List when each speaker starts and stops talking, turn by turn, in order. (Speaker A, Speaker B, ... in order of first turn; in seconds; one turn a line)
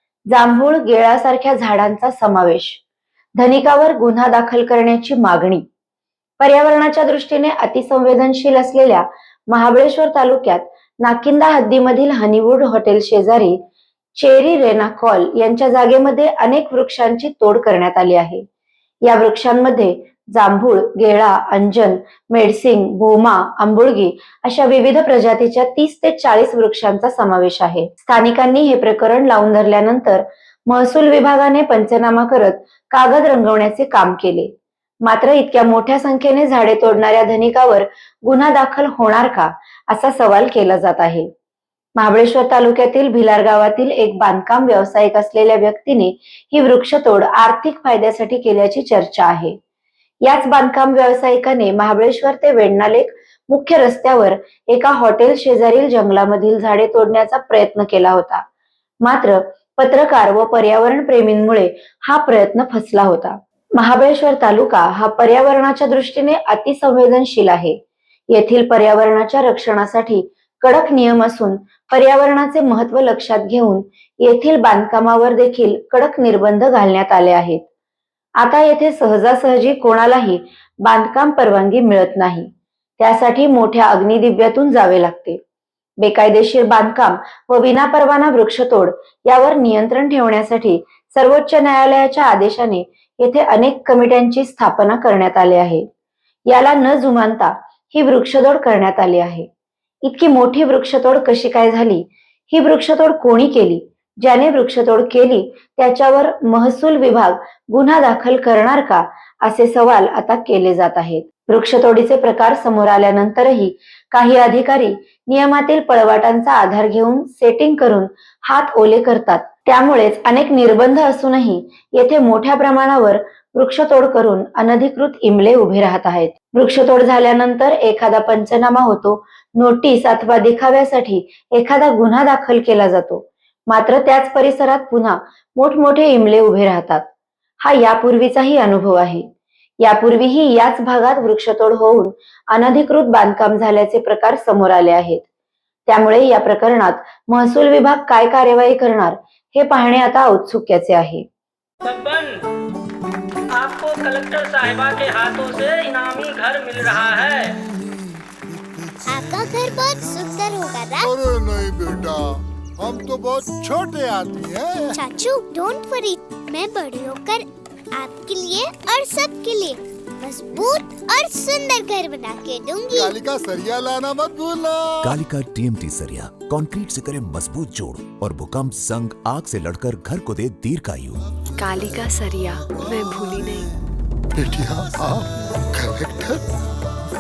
Speaker A: 0.3-2.8
Speaker A: 3.4-5.7
Speaker A: 6.4-13.6
Speaker A: 14.2-18.4
Speaker A: 19.0-34.5
Speaker A: 35.0-41.3
Speaker A: 42.0-49.6
Speaker A: 50.2-58.4
Speaker A: 59.0-67.8
Speaker A: 68.3-77.6
Speaker A: 78.4-85.4
Speaker A: 86.0-95.8
Speaker A: 96.5-99.5
Speaker A: 100.0-137.1
Speaker A: 137.6-139.3
Speaker A: 139.8-145.3
Speaker A: 145.9-151.3
Speaker B: 151.8-152.4
Speaker B: 153.5-157.6
Speaker C: 159.1-161.1
Speaker D: 161.0-165.0
Speaker C: 164.9-173.2
Speaker D: 172.9-175.2
Speaker E: 175.0-181.2
Speaker F: 181.6-183.7
Speaker D: 184.3-186.5